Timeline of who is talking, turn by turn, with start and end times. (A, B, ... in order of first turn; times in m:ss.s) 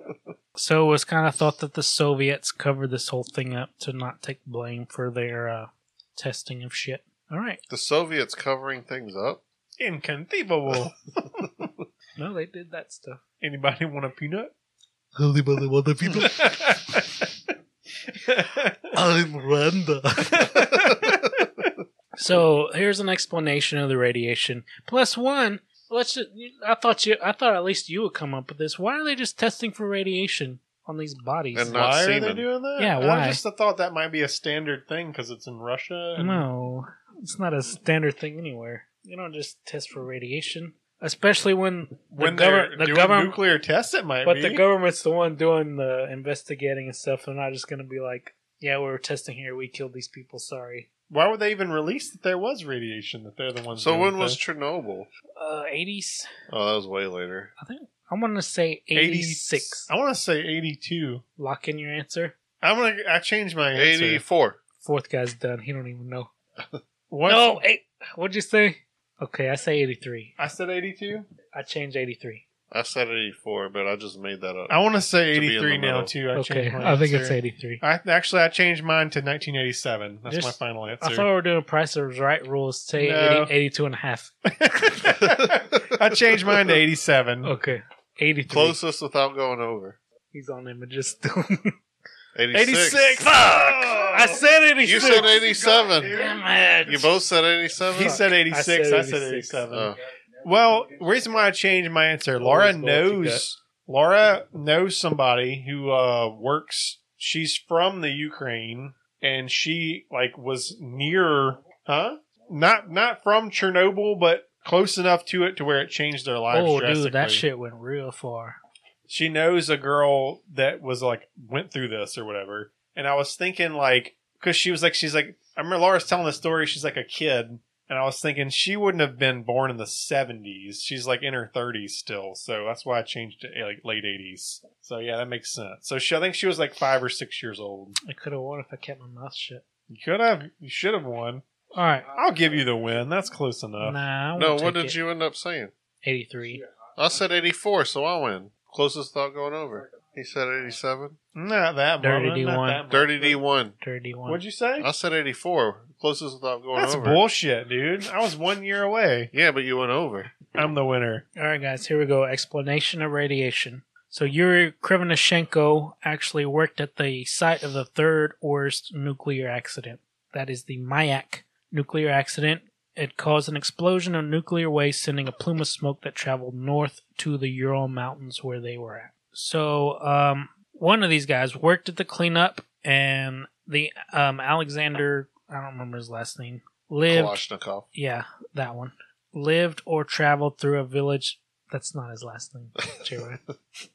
0:00.6-0:07.6 A
0:07.7-0:09.4 B
0:09.8-0:11.7 C
0:12.2-0:13.2 A
0:13.4-0:14.5 C
0:15.1-0:17.0 A
0:16.1-0:17.2 C
0:18.2-0:18.8 C
0:18.9-0:20.6 A
0:20.4-0:21.2 C
0:22.2-0:31.8 A
0:31.5-0:32.4 B
0:31.7-0:36.4 C
0:32.8-0:33.4 A
0:36.2-0:43.4 A
0:42.1-0:44.6 C
0:44.2-0:50.9 A
0:51.1-0:54.4 C
0:53.8-0:55.1 B
0:55.4-0:56.3 A
0:56.5-0:57.5 B
0:57.6-0:59.9 A
0:58.9-1:01.2 C
1:01.4-1:02.3 A
1:02.6-1:04.2 C
1:03.7-1:04.6 B
1:04.8-1:06.3 A
1:07.1-1:07.6 C
1:07.2-1:10.3 A
1:10.4-1:11.3 C
1:11.5-1:12.4 A
1:12.7-1:16.1 B
1:14.7-1:21.3 C
1:16.3-1:17.8 A
1:20.3-1:24.3 A
1:23.0-1:23.5 C
1:24.5-1:27.5 C
1:25.1-1:26.8 B
1:27.4-1:28.8 A
1:28.5-1:30.0 B
1:30.3-1:31.7 A
1:32.3-1:33.2 B
1:32.5-1:34.4 C
1:33.2-1:35.4 A
1:34.8-1:36.2 B
1:35.0-1:36.0 C
1:36.1-1:37.1 A
1:36.8-1:38.2 B
1:37.9-1:57.4 C
1:38.0-1:39.7 A
1:39.7-1:40.0 B
1:42.4-1:43.4 A
1:56.5-1:58.6 A
1:59.1-2:18.0 C
2:18.0-2:19.6 A
2:19.9-2:21.4 C
2:21.7-2:22.1 A
2:22.1-2:24.0 C
2:23.8-2:25.0 A
2:24.4-2:25.7 B
2:26.0-2:26.6 A
2:27.0-2:31.2 B
2:31.3-2:33.4 C
2:32.0-2:32.8 A
2:32.9-2:33.8 B
2:33.8-2:34.4 A
2:34.2-2:34.9 C
2:34.8-2:37.2 B
2:36.7-2:39.3 C
2:39.3-2:40.5 B
2:40.5-2:41.2 C
2:41.4-3:07.4 A
3:07.1-3:07.9 B
3:07.9-3:13.4 A